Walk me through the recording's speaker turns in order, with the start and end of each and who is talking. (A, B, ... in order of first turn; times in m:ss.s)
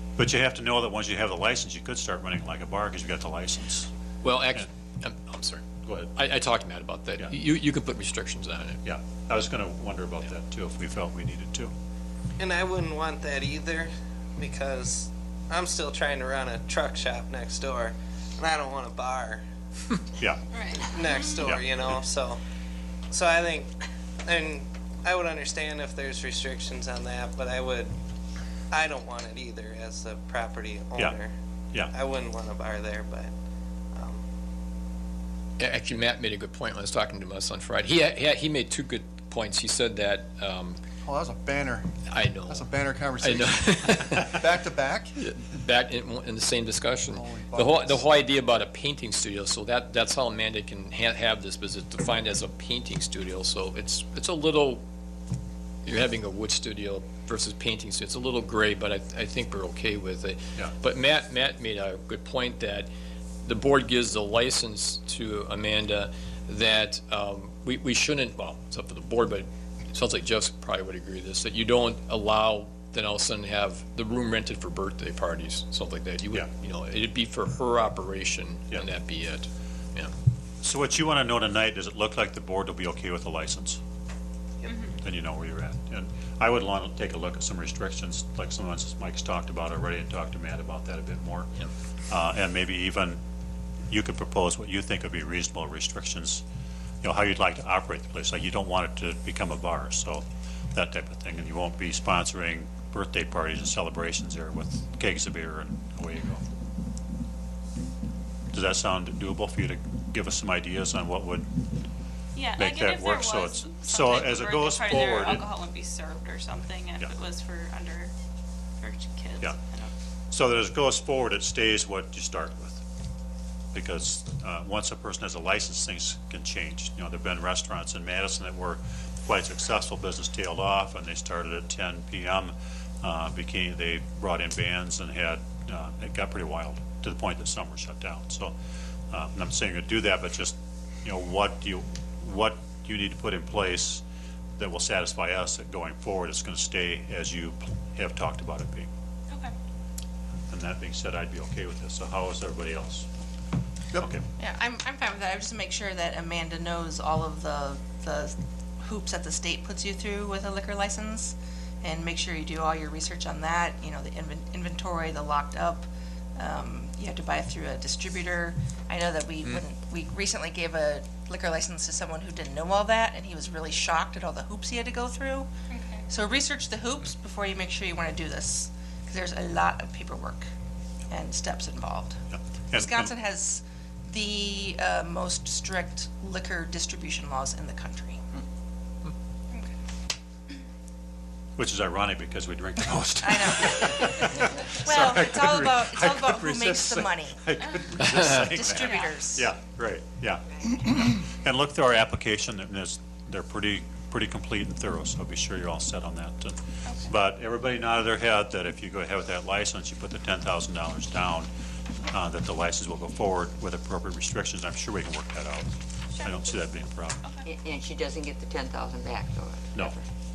0:00.2-0:03.9 A
0:04.2-0:08.8 B
0:05.8-0:06.2 A
0:08.8-0:11.7 A
0:12.4-0:19.4 C
0:20.5-0:21.5 D
0:20.8-0:22.4 C
0:23.1-0:23.7 C
0:24.3-0:27.9 C
0:28.7-0:31.3 C
0:31.9-0:33.3 C
0:35.6-0:40.8 B
0:41.0-0:41.9 E
0:42.1-0:44.5 B
0:42.5-0:45.2 E
0:45.2-0:54.8 B
0:47.1-0:48.0 E
0:55.8-1:02.9 B
1:03.4-1:20.1 B
1:20.6-1:23.8 A
1:24.7-1:25.0 D
1:25.0-1:31.5 A
1:32.1-1:33.2 A
1:33.9-1:36.4 A
1:37.0-1:46.5 A
1:48.5-1:51.5 A
1:52.3-1:58.1 D
1:52.6-1:55.5 A
1:58.8-1:59.9 D
2:00.3-2:02.8 A
2:03.7-2:18.5 A
2:19.1-2:24.0 A
2:24.6-2:28.9 A
2:29.3-2:29.5 D
2:30.5-2:33.1 A
2:34.0-2:34.2 A
2:34.4-2:55.5 F
2:55.7-2:56.1 D
2:56.1-3:00.5 F
3:01.1-3:02.2 F
3:02.3-3:03.1 A
3:02.7-3:08.2 F
3:11.6-3:31.5 A
3:13.2-3:17.4 F
3:18.2-3:19.5 F
3:18.8-3:19.1 D
3:26.9-3:27.1 D
3:32.1-3:37.2 A
3:36.1-3:36.6 D
3:37.2-3:37.5 D
3:37.4-3:40.1 G